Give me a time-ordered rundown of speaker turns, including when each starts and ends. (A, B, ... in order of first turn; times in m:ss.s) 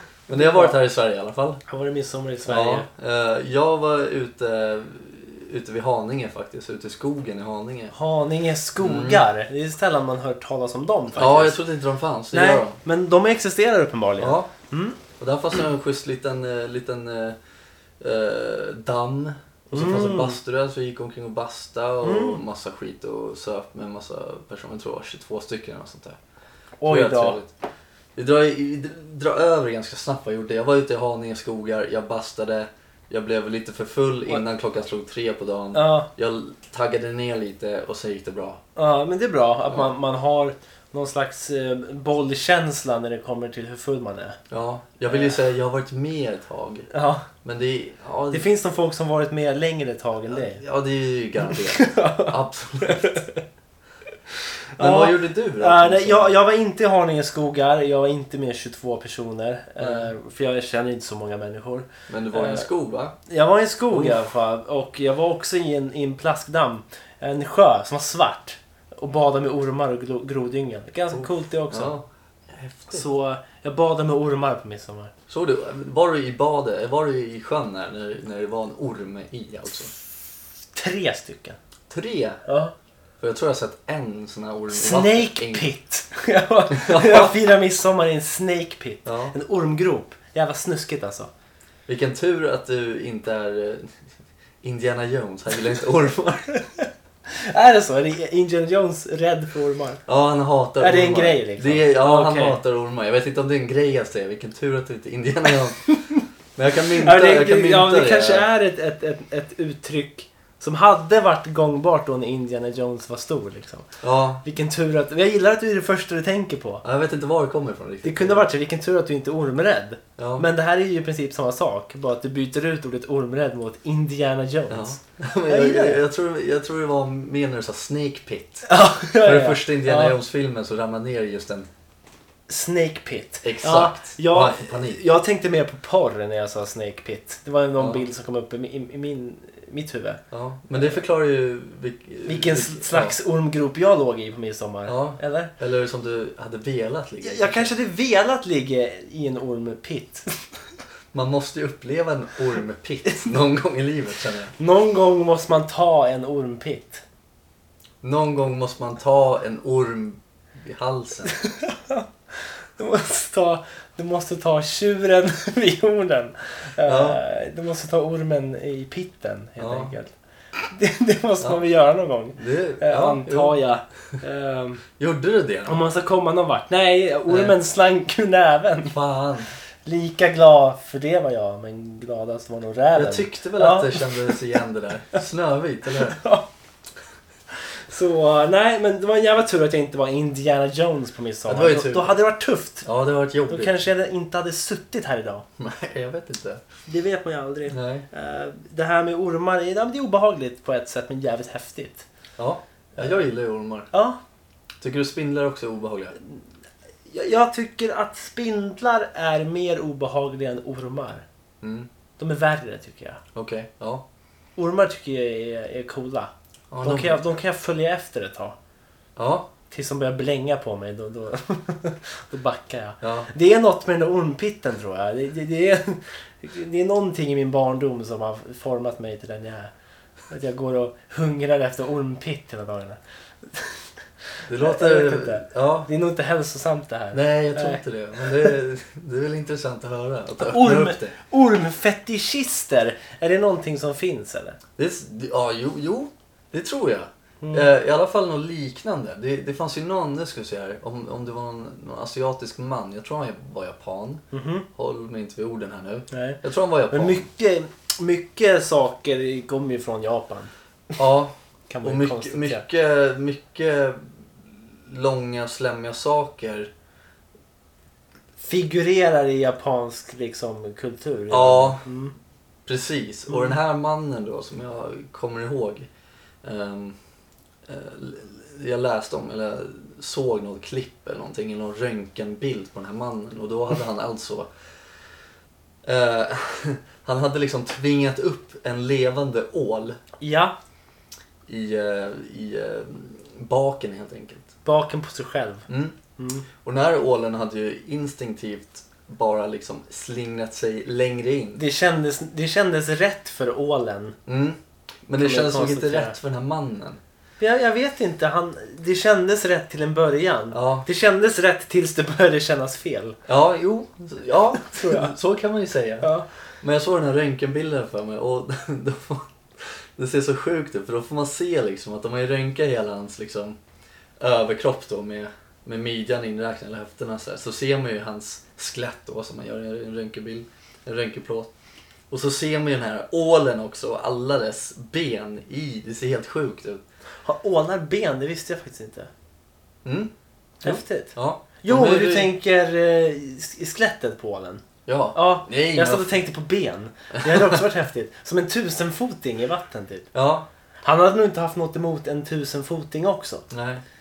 0:00.3-0:00.8 A
0:00.3-0:01.6 B
0:01.7-0:02.9 A
0:02.5-0:07.9 B
0:07.9-0:11.6 A
0:08.8-0:09.2 B
0:11.1-0:12.8 B
0:12.3-0:15.0 A
0:14.2-0:14.5 B
0:15.2-0:17.4 B
0:18.0-0:26.2 B
0:19.7-0:20.4 A
0:22.0-0:22.4 A
0:26.8-0:27.4 A
0:26.8-0:27.5 B
0:28.2-0:38.6 B
0:35.7-0:36.1 A
0:38.8-0:44.4 A
0:44.5-0:46.9 B
0:45.1-0:45.4 A
0:46.9-0:47.3 A
0:47.4-0:48.5 B
0:48.3-0:50.6 A
0:50.3-0:53.1 B
0:51.5-0:53.4 A
0:54.7-1:02.7 A
0:54.8-0:56.3 B
0:59.8-1:00.1 B
1:02.1-1:03.1 B
1:03.2-1:11.9 A
1:03.9-1:04.2 B
1:11.1-1:13.0 B
1:12.9-1:15.1 A
1:15.3-1:19.9 B
1:20.7-1:21.6 A
1:21.9-1:22.4 B
1:22.4-1:22.7 A
1:23.2-1:25.7 B
1:24.7-1:31.3 A
1:26.7-1:27.3 B
1:29.0-1:29.3 B
1:31.9-1:34.0 B
1:34.6-1:36.5 B
1:36.7-1:40.0 A
1:40.1-1:45.9 B
1:40.8-1:42.6 A
1:46.6-1:48.4 B
1:47.0-1:53.9 A
1:54.0-1:54.4 B
1:54.4-1:56.8 A
1:56.8-1:58.5 B
1:58.0-2:06.0 A
2:00.2-2:00.4 B
2:04.7-2:11.7 B
2:08.7-2:10.1 A
2:12.5-2:20.2 A
2:13.4-2:15.0 B
2:17.8-2:18.0 B
2:20.3-2:23.2 B
2:22.2-2:25.5 A
2:24.9-2:27.7 B
2:27.2-2:30.6 A
2:31.1-2:34.5 B
2:34.6-2:37.0 A
2:38.0-2:41.3 B
2:41.2-2:50.1 A
2:46.8-2:47.2 B
2:49.6-2:49.9 B
2:50.7-2:54.8 A
2:52.4-2:53.6 B
2:55.0-2:55.8 B
2:55.6-2:59.0 A
2:57.3-2:57.6 B
2:58.9-2:59.5 B
2:59.8-3:04.4 A
3:02.9-3:06.2 B
3:05.9-3:06.5 A
3:07.9-3:12.9 A
3:11.5-3:12.2 B
3:12.8-3:13.8 B
3:13.5-3:15.4 A
3:15.6-3:16.6 B
3:16.9-3:22.0 A
3:17.7-3:18.1 B
3:22.4-3:23.9 B
3:23.9-3:24.2 A
3:24.8-3:26.2 B
3:27.1-3:31.2 A
3:31.6-3:31.9 B
3:32.2-3:33.2 A
3:33.3-3:34.0 B
3:34.6-3:38.5 A
3:36.7-3:37.2 B
3:39.2-3:39.5 B
3:39.7-3:49.7 A
3:43.0-3:43.3 B
3:50.3-3:53.0 A
3:53.5-3:53.8 A
3:54.5-3:55.9 B
3:54.5-3:58.5 A
3:57.1-4:01.2 B
4:00.4-4:04.6 A
4:04.8-4:17.3 B
4:07.4-4:07.7 A
4:14.3-4:14.7 A
4:16.1-4:20.5 A
4:21.0-4:24.1 B
4:21.7-4:22.6 A
4:24.8-4:26.7 B
4:28.4-4:32.1 A
4:31.3-4:31.8 B
4:32.6-4:35.9 B
4:36.4-4:37.0 B
4:37.6-4:44.5 B
4:45.8-4:50.0 B
4:50.2-4:50.6 A
4:51.5-4:54.5 B
4:54.6-4:56.5 A
4:55.7-4:56.0 B
4:56.6-5:01.6 B
5:01.6-5:04.2 A
5:04.2-5:07.0 B
5:05.2-5:06.1 A
5:07.4-5:13.2 A
5:10.5-5:10.8 B
5:13.3-5:16.1 B
5:14.6-5:15.1 A
5:16.0-5:16.2 A
5:16.6-5:23.6 B
5:24.2-5:31.5 B
5:32.1-5:36.8 B
5:37.2-5:39.1 A
5:39.8-5:40.1 B
5:40.6-5:44.6 A
5:40.6-5:42.3 B
5:44.8-5:46.2 B
5:45.1-5:50.1 A
5:47.2-5:47.6 B
5:50.1-5:50.5 B
5:50.8-5:53.4 A
5:53.5-5:53.8 B